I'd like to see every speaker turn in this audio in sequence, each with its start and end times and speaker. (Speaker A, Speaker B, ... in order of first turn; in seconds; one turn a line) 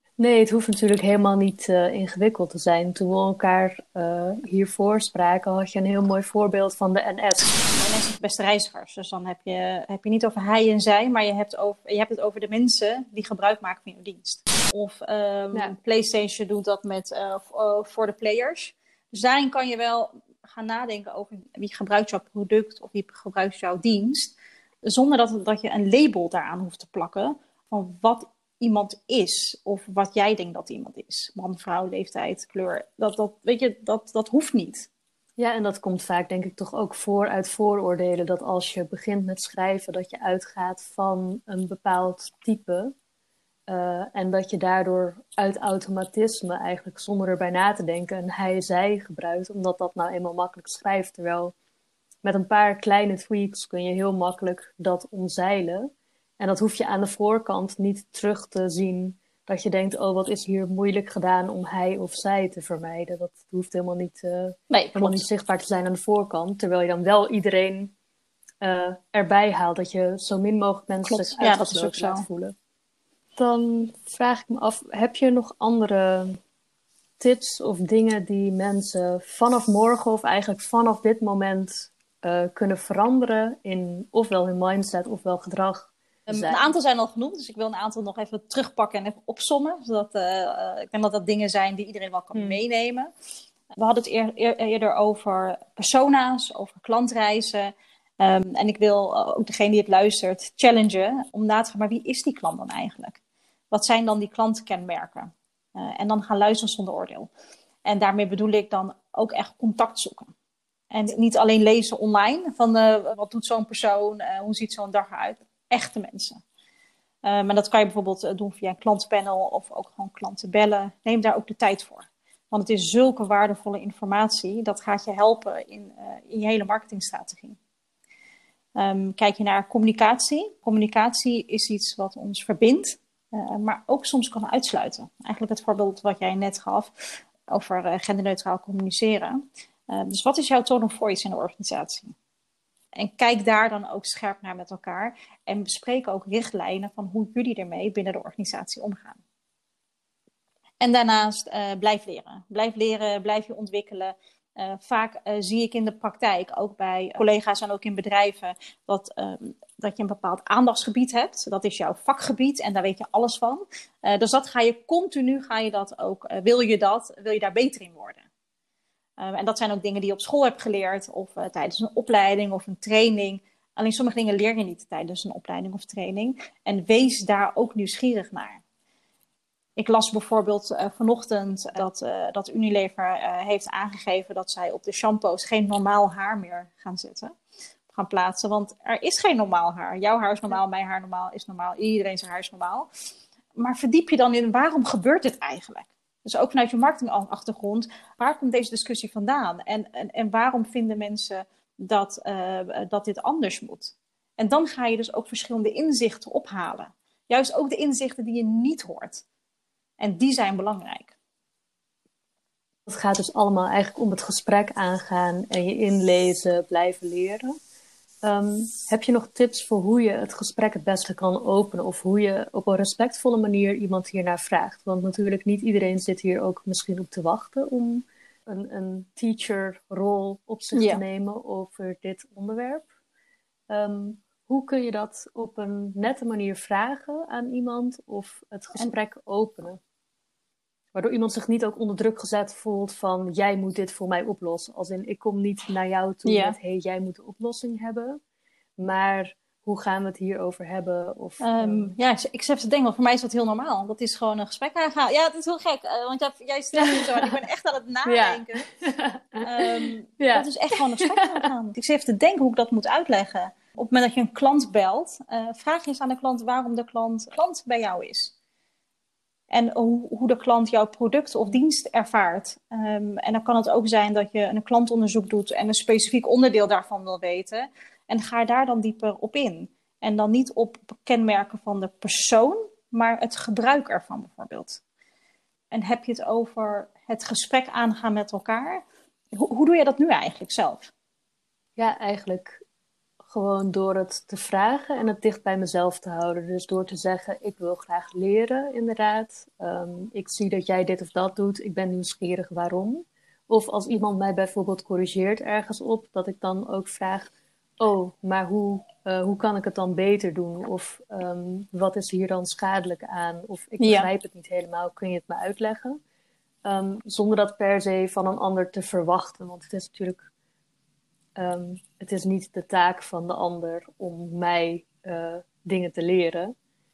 Speaker A: 0.2-7.5
Speaker B: 7.7-24.3
Speaker B: 24.9-34.9
Speaker A: 35.4-42.9
Speaker A: 43.7-51.5
Speaker A: 52.2-67.9
Speaker B: 64.7-65.2
Speaker A: 68.6-72.5
Speaker B: 71.0-72.2
Speaker A: 73.3-76.4
Speaker A: 77.2-86.7
Speaker B: 86.3-93.1
Speaker A: 92.3-92.6
Speaker B: 93.7-103.2
Speaker B: 103.7-107.3
Speaker B: 107.8-110.3
Speaker B: 110.9-116.4
Speaker B: 117.2-127.6
Speaker B: 128.8-139.4
Speaker B: 139.9-142.1
Speaker B: 143.0-149.2
Speaker B: 150.8-168.2
Speaker B: 169.2-178.6
Speaker B: 179.8-187.3
Speaker B: 187.9-192.9
Speaker B: 193.6-209.2
Speaker B: 210.0-211.1
Speaker A: 212.9-217.5
Speaker A: 218.2-232.9
Speaker B: 230.7-231.0
Speaker A: 233.7-239.8
Speaker A: 240.9-248.2
Speaker B: 246.2-246.6
Speaker A: 248.8-251.9
Speaker B: 251.4-258.7
Speaker A: 256.8-257.3
Speaker A: 258.0-261.2
Speaker B: 259.4-268.3
Speaker B: 269.5-284.8
Speaker B: 285.7-288.8
Speaker B: 289.4-290.9
Speaker A: 291.8-292.6
Speaker A: 293.2-316.0
Speaker B: 313.8-314.1
Speaker A: 316.6-320.3
Speaker A: 321.4-326.5